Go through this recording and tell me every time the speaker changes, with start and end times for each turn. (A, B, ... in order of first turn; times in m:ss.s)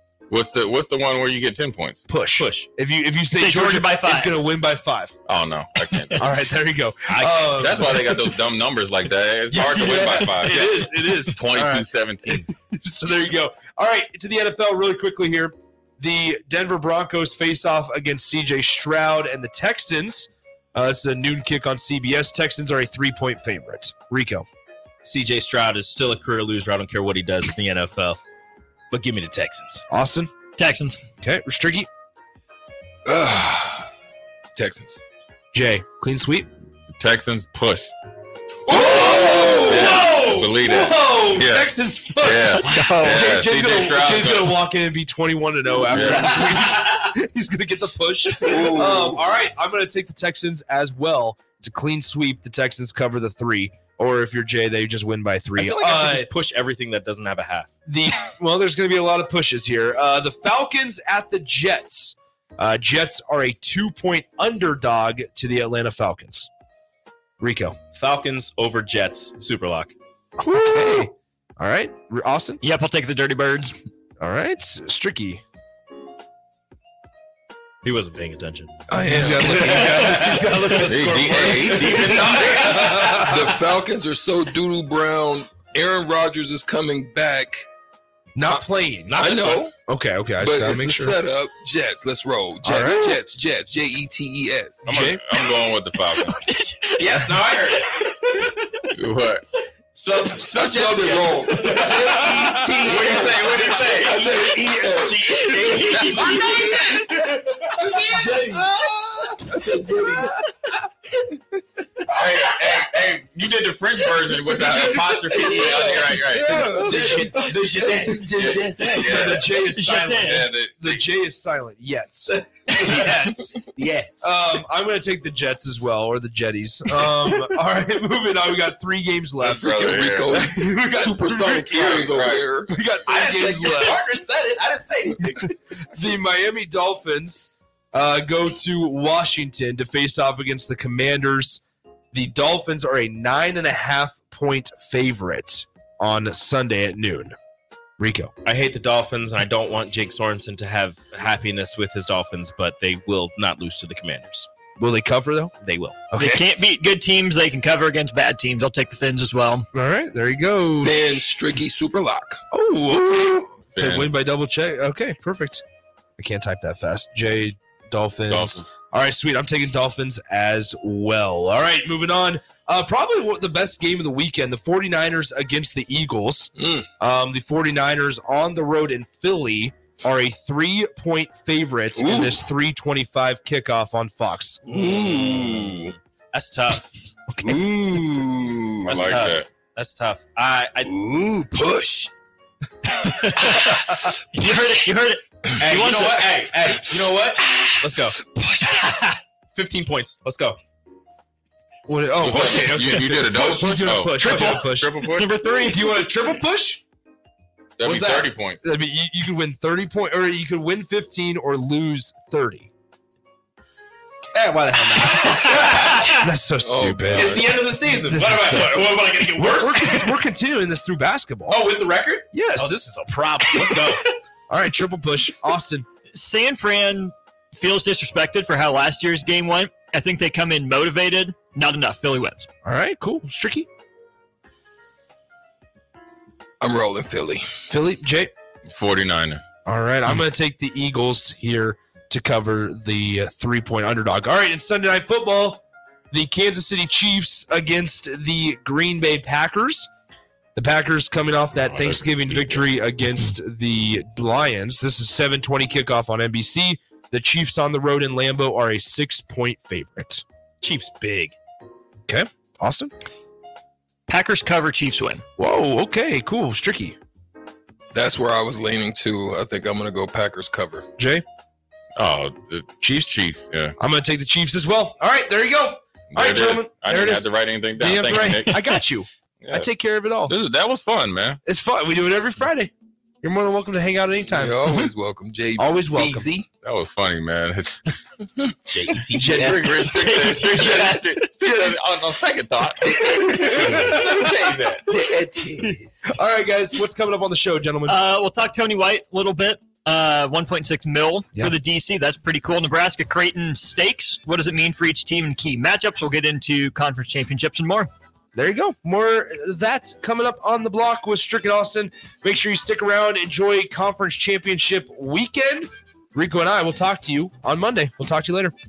0:00.3-0:02.0 A
0:02.1-0:05.2 B
0:02.4-0:02.7 C
0:03.3-0:04.4 D
0:05.2-0:06.3 A
0:06.2-0:08.4 B
0:07.1-0:07.9 C
0:07.5-0:12.4 A
0:09.5-0:24.4 B
0:25.0-0:28.2 C
0:28.9-0:29.8 C
0:29.9-0:30.3 B
0:30.6-0:31.0 D
0:31.2-0:31.9 B
0:33.0-0:33.9 E
0:34.6-0:35.0 E
0:35.5-0:36.5 B
0:37.0-0:37.9 A
0:38.7-0:40.0 E
0:38.7-0:56.3 B
0:39.6-0:44.6 A
0:42.6-0:43.3 D
0:45.9-0:46.3 A
0:46.0-0:46.7 D
0:48.4-0:49.2 E
0:55.6-0:57.7 C
0:57.8-1:06.5 B
1:07.4-1:07.8 B
1:07.9-1:09.9 C
1:10.4-1:12.6 B
1:12.6-1:13.8 D
1:14.2-1:15.4 B
1:17.8-1:18.8 C
1:18.9-1:19.8 E
1:18.9-1:23.5 B
1:19.4-1:20.4 C
1:19.8-1:20.6 D
1:20.8-1:22.2 A
1:21.0-1:23.4 C
1:21.4-1:27.7 E
1:28.4-1:29.3 B
1:29.0-1:29.4 C
1:29.2-1:29.7 E
1:29.2-1:29.6 A
1:29.8-1:31.2 B
1:30.4-1:34.9 E
1:32.6-1:33.2 B
1:34.8-1:36.4 A
1:34.8-1:35.2 B
1:35.4-1:35.6 D
1:36.2-1:37.1 D
1:37.0-1:38.6 C
1:38.0-1:38.3 D
1:38.9-1:39.4 A
1:39.9-1:46.4 C
1:40.5-1:45.5 E
1:42.8-1:44.2 A
1:45.4-1:47.2 D
1:45.7-1:46.5 A
1:46.4-1:47.0 E
1:47.8-1:50.4 E
1:52.1-1:56.9 A
1:54.6-1:58.3 E
1:56.8-1:58.4 B
1:56.9-1:59.3 C
1:58.3-2:01.1 A
1:59.0-2:03.6 B
1:59.7-2:00.4 D
2:02.3-2:03.0 C
2:03.8-2:04.3 C
2:04.2-2:09.7 B
2:09.4-2:10.4 A
2:09.5-2:12.7 E
2:10.3-2:12.1 B
2:11.7-2:12.5 A
2:12.7-2:14.1 B
2:13.0-2:15.4 C
2:15.3-2:21.6 B
2:22.1-2:27.3 B
2:28.0-2:28.3 B
2:28.4-2:34.5 C
2:34.8-2:35.6 B
2:35.6-2:36.1 C
2:36.1-2:36.4 B
2:36.1-2:39.6 D
2:39.7-2:41.0 B
2:40.8-2:42.4 E
2:42.5-2:45.6 B
2:43.7-2:44.1 A
2:46.2-3:04.7 B
2:48.3-2:48.6 A
2:56.6-2:56.9 E
3:01.9-3:02.5 E
3:04.7-3:05.9 E
3:04.8-3:06.9 C
3:07.3-3:07.6 B
3:07.4-3:09.0 E
3:08.8-3:10.9 C
3:08.9-3:09.5 A
3:10.8-3:12.1 E
3:12.9-3:16.4 D
3:15.6-3:18.2 C
3:18.3-3:18.6 E
3:18.8-3:20.6 C
3:21.9-3:26.8 B
3:22.2-3:25.3 A
3:24.2-3:26.1 D
3:27.8-3:28.6 A
3:27.8-3:32.7 B
3:34.3-3:36.3 C
3:36.1-3:37.4 B
3:36.6-3:37.7 E
3:37.1-3:40.2 C
3:38.0-3:41.6 B
3:41.5-3:44.1 C
3:42.3-3:42.8 B
3:44.5-3:45.8 B
3:46.1-3:52.5 D
3:52.6-3:53.7 B
3:56.6-3:57.4 E
3:57.7-3:58.3 B
3:58.7-3:59.4 A
3:59.6-4:09.9 B
4:10.6-4:20.2 B
4:11.5-4:12.7 A
4:20.6-4:21.3 C
4:22.1-4:22.9 B
4:24.1-4:25.2 D
4:25.4-4:27.0 B
4:27.9-4:30.9 E
4:31.0-4:31.2 B
4:32.0-4:33.8 A
4:32.8-4:33.1 B
4:33.8-4:40.4 B
4:36.1-4:38.6 A
4:39.4-4:39.7 A
4:40.3-4:41.4 A
4:41.4-4:44.7 B
4:44.3-4:45.8 E
4:45.6-4:46.3 B
4:45.9-4:46.5 C
4:46.6-4:47.9 A
4:48.7-4:49.9 C
4:49.1-4:49.6 B
4:49.4-4:53.4 A
4:49.8-4:51.7 D
4:53.0-4:54.5 B
4:53.4-4:55.8 E
4:53.5-4:54.0 C
4:56.0-4:58.0 B
4:57.8-5:07.9 D
5:08.3-5:18.5 B